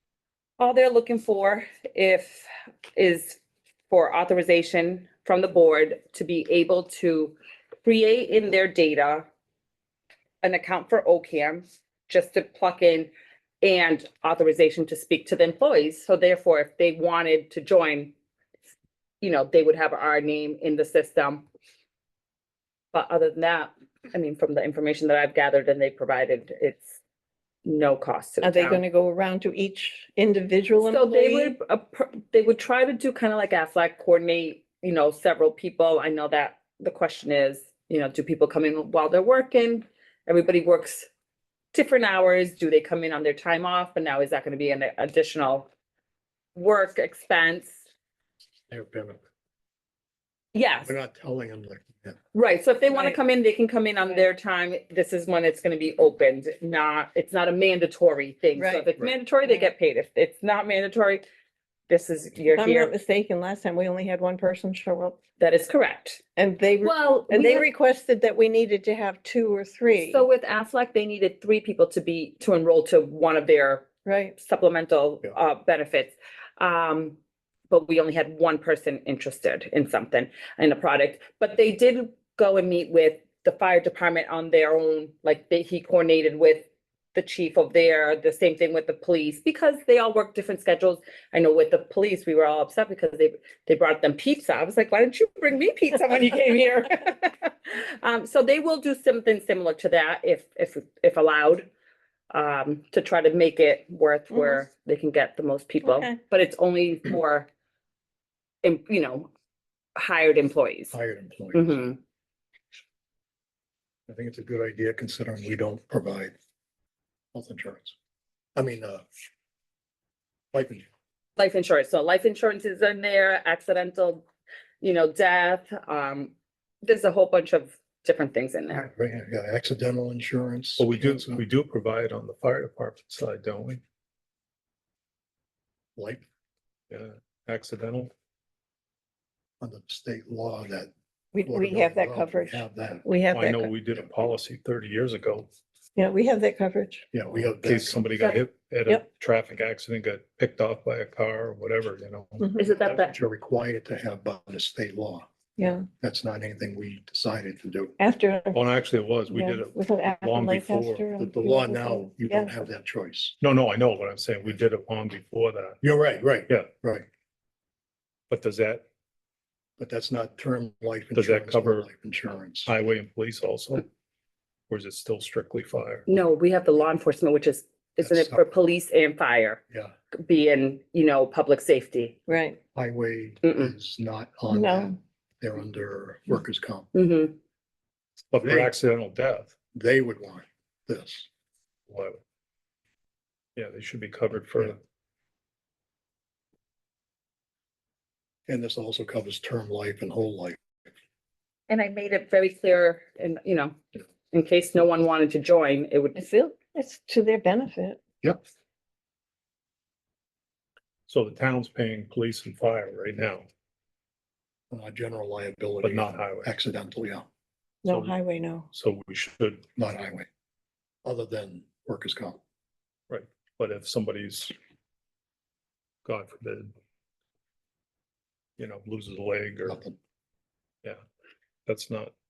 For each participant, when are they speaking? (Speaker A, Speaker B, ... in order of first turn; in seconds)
Speaker A: 0.6-9.3, 10.4-13.1, 13.6-18.1, 19.2-21.4, 22.9-27.0, 27.6-28.8, 30.8-41.1, 41.7-45.7, 46.5-47.7, 50.5-50.9, 52.3-61.2, 61.9-62.9, 65.4-66.2, 66.8-67.7, 69.9-77.2, 77.7-101.7, 102.3-107.5, 108.6-109.3, 110.0-110.9, 111.5-112.0, 121.4-124.2, 124.8-128.9, 152.6-153.1, 176.1-179.6, 180.2-182.2, 183.4-183.7, 186.9-187.3, 201.7-203.8, 204.3-206.2
Speaker B: 28.4-31.5, 52.9-53.2, 58.5-58.9, 62.5-65.2, 66.3-70.2, 74.0-74.3, 141.3-143.7, 145.9-147.1, 152.4-152.7, 155.6-155.9, 158.0-158.6, 159.3-162.6, 182.3-182.6, 184.5-184.9, 206.2-208.0, 217.8-218.7
Speaker C: 48.7-49.2, 50.8-52.2, 110.9-111.8, 114.1-116.3, 117.3-117.9, 118.5-119.0, 120.5-120.8, 128.7-131.4, 135.9-136.2, 139.6-140.9, 141.4-143.0, 147.1-148.0, 152.8-155.3, 155.9-157.9, 161.2-163.3, 165.8-167.1, 169.8-172.7, 178.0-178.4, 182.7-186.9, 188.4-188.7, 189.7-191.3, 198.5-200.6, 214.7-217.2, 219.8-220.3, 221.0-222.4, 229.7-230.0
Speaker D: 130.8-133.8, 136.9-138.1, 143.3-145.5, 147.3-153.1, 158.5-161.1, 163.4-165.8, 168.3-168.8, 171.1-171.9, 172.6-173.8, 174.7-176.1, 188.3-189.5, 191.9-192.2, 193.6-194.8, 211.1-213.4, 215.8-216.5, 217.8-218.1, 218.7-219.6, 223.1-224.5, 226.0-226.7, 228.6-229.8, 231.7-232.1